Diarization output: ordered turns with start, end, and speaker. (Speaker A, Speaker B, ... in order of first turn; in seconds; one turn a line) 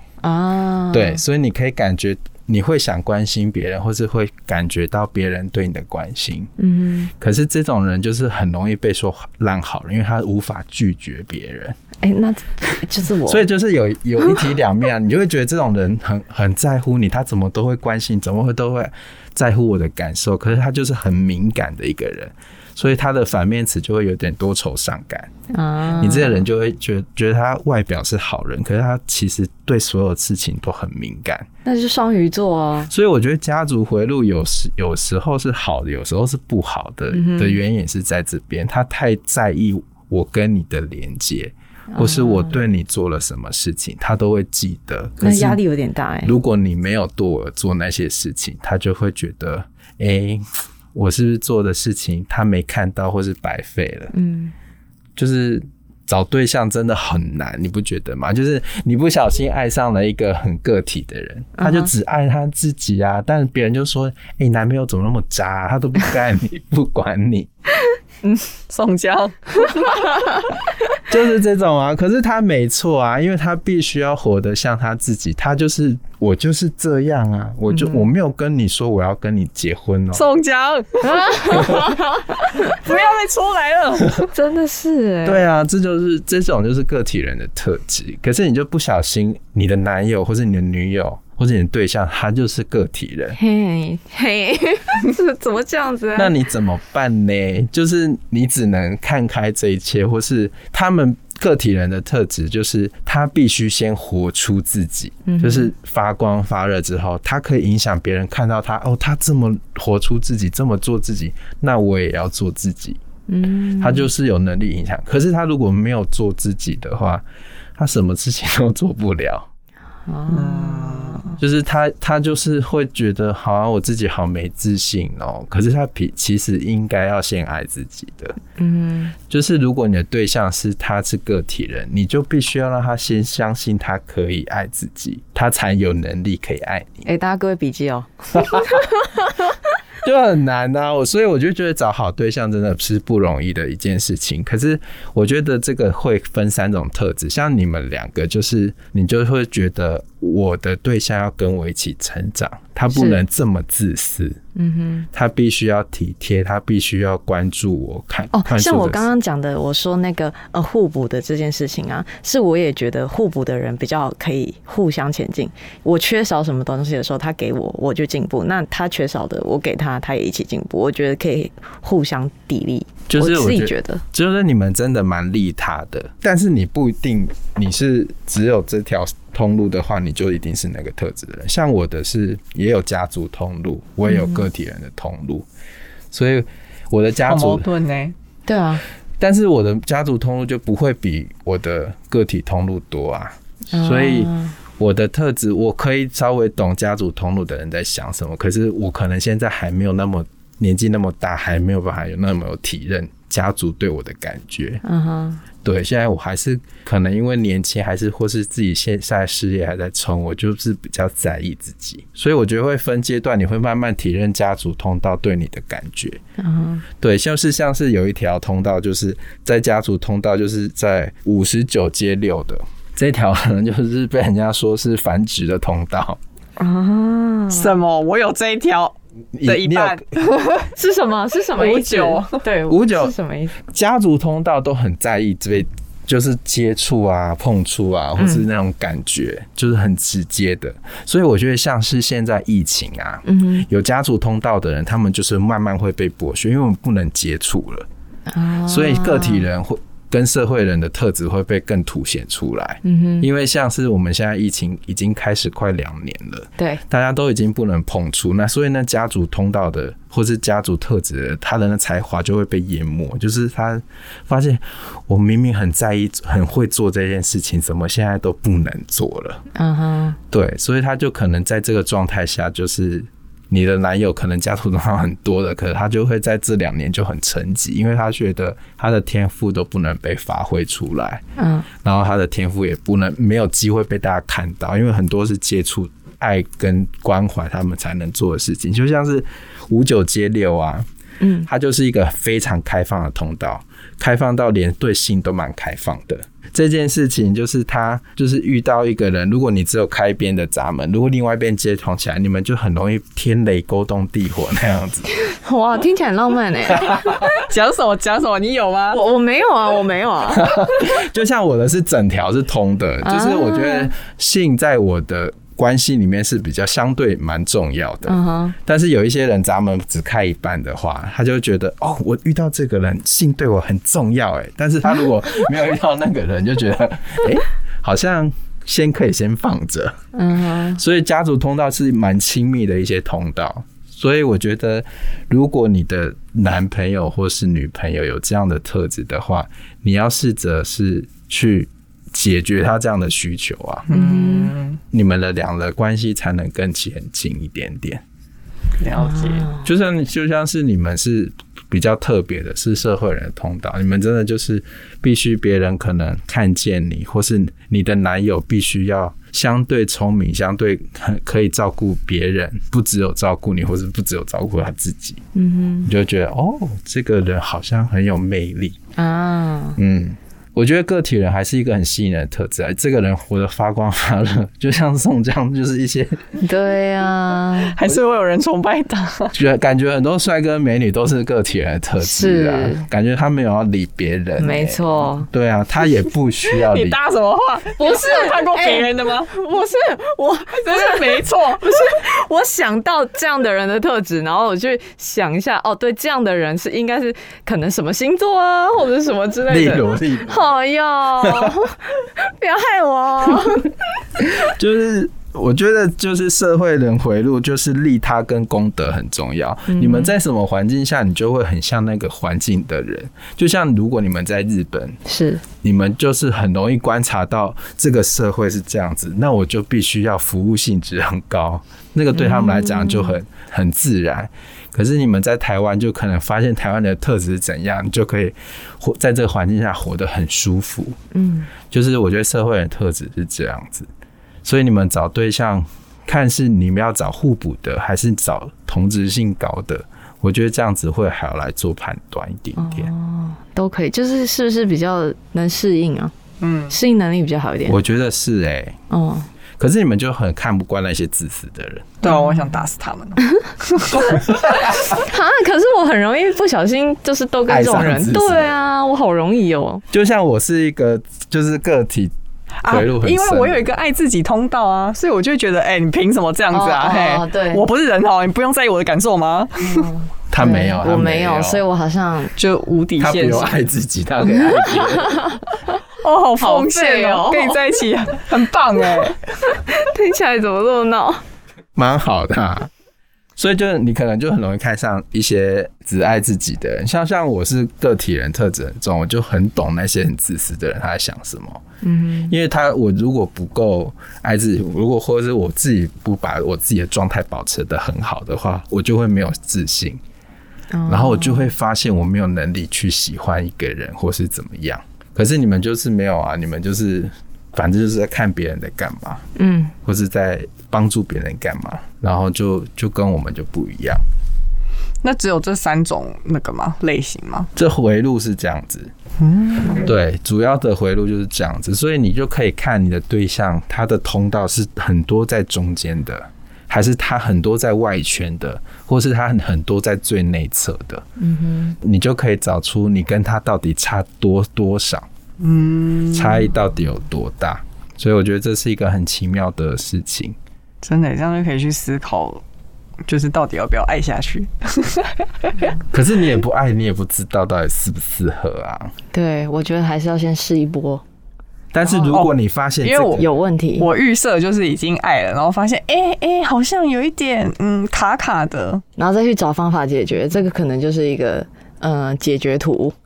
Speaker A: 0.2-1.2
Speaker B: 0.9-6.5
Speaker A: 6.6-7.1
Speaker B: 7.2-11.8
Speaker A: 12.0-13.4
Speaker B: 13.3-25.3
Speaker A: 25.5-26.4
Speaker B: 26.0-31.5
Speaker A: 31.6-32.9
Speaker B: 32.9-45.6
Speaker A: 37.1-37.6
Speaker A: 41.9-42.6
Speaker A: 45.2-46.3
Speaker B: 46.2-54.1
Speaker A: 54.1-54.5
Speaker B: 55.2-67.5
Speaker A: 61.6-61.9
Speaker C: 68.7-70.0
Speaker B: 71.1-80.3
Speaker A: 77.7-78.0
Speaker C: 80.1-81.9
Speaker A: 81.0-82.8
Speaker C: 82.5-84.3
Speaker A: 84.3-85.4
Speaker B: 85.2-93.4
Speaker A: 93.4-96.3
Speaker B: 96.1-113.0
Speaker A: 105.3-105.7
Speaker A: 113.3-114.1
Speaker B: 113.8-117.2
Speaker B: 117.8-119.5
Speaker A: 120.1-121.4
Speaker C: 120.3-121.3
Speaker B: 121.4-128.4
Speaker A: 128.6-129.1
Speaker B: 129.3-137.1
Speaker A: 137.1-139.4
Speaker B: 138.3-138.8
Speaker B: 140.0-154.4
Speaker A: 152.9-153.2
Speaker A: 154.6-155.1
Speaker B: 155.1-159.1
Speaker A: 158.3-174.0
Speaker B: 173.1-185.4
Speaker A: 184.1-184.4
Speaker B: 186.1-187.7
Speaker C: 187.3-188.1
Speaker A: 188.4-188.8
Speaker B: 189.2-204.8
Speaker A: 193.7-194.5
Speaker A: 204.8-205.4
Speaker B: 205.6-216.2
Speaker A: 216.4-216.8
Speaker B: 217.0-226.2
Speaker A: 226.6-227.7
Speaker C: 227.5-230.7
Speaker B: 229.3-230.0
Speaker A: 230.7-233.6
Speaker C: 231.6-232.4
Speaker B: 232.7-247.9
Speaker A: 243.3-243.7
Speaker A: 248.3-249.4
Speaker B: 248.7-269.4
Speaker A: 252.8-253.3
Speaker A: 269.5-270.2
Speaker B: 270.3-281.2
Speaker A: 281.4-281.7
Speaker B: 281.8-290.9
Speaker A: 291.2-291.5
Speaker B: 291.4-305.1
Speaker A: 305.3-307.3
Speaker B: 306.8-307.1
Speaker C: 307.3-309.0
Speaker A: 308.9-310.7
Speaker B: 310.3-330.0
Speaker A: 313.0-313.9
Speaker A: 318.1-318.6
Speaker A: 330.1-330.8
Speaker B: 330.8-343.9
Speaker C: 343.9-344.8
Speaker A: 343.9-344.6
Speaker B: 344.9-348.0
Speaker C: 348.8-349.5
Speaker A: 349.0-349.6
Speaker B: 349.6-365.2
Speaker A: 365.4-365.9
Speaker B: 365.9-368.8
Speaker A: 368.9-369.8
Speaker B: 369.8-376.4
Speaker A: 376.4-377.8
Speaker C: 377.6-379.3
Speaker B: 379.3-387.0
Speaker A: 382.0-382.9
Speaker A: 384.4-385.3
Speaker C: 386.5-389.3
Speaker A: 387.8-403.7
Speaker C: 390.6-391.9
Speaker B: 399.5-400.4
Speaker B: 401.2-401.6
Speaker B: 404.2-415.0
Speaker A: 409.7-410.1
Speaker A: 415.1-415.4
Speaker B: 415.6-431.0
Speaker A: 422.1-423.1
Speaker A: 431.1-431.5
Speaker B: 431.7-433.9
Speaker B: 434.4-442.9
Speaker A: 442.6-446.1
Speaker C: 446.4-446.8
Speaker A: 446.7-447.8
Speaker B: 447.7-448.8
Speaker A: 448.9-449.3
Speaker B: 449.6-452.0
Speaker C: 452.0-454.2
Speaker B: 454.2-454.7
Speaker A: 454.8-459.8
Speaker B: 457.5-458.5
Speaker B: 459.9-462.1
Speaker C: 462.6-469.9
Speaker B: 462.6-463.7
Speaker A: 466.5-467.6
Speaker A: 469.6-472.3
Speaker B: 470.3-471.6
Speaker C: 472.4-473.6
Speaker B: 473.0-475.3
Speaker A: 475.0-475.4
Speaker C: 476.0-479.2
Speaker A: 476.4-477.6
Speaker A: 479.5-481.2
Speaker B: 481.8-482.7
Speaker B: 483.4-491.6
Speaker A: 491.8-492.3
Speaker B: 492.3-500.0
Speaker A: 500.7-501.5
Speaker B: 500.9-509.2
Speaker A: 509.4-509.7
Speaker B: 509.8-514.0
Speaker C: 515.0-517.5
Speaker B: 517.5-518.9
Speaker C: 519.2-519.9
Speaker B: 519.7-531.0
Speaker A: 531.2-531.8
Speaker B: 531.8-535.1
Speaker C: 535.4-536.5
Speaker B: 536.1-540.4
Speaker C: 540.8-542.4
Speaker C: 543.1-545.7
Speaker B: 545.9-548.9
Speaker A: 549.1-551.0
Speaker B: 551.7-553.3
Speaker C: 552.0-553.2
Speaker A: 553.2-553.9
Speaker C: 553.8-558.8
Speaker A: 559.0-562.9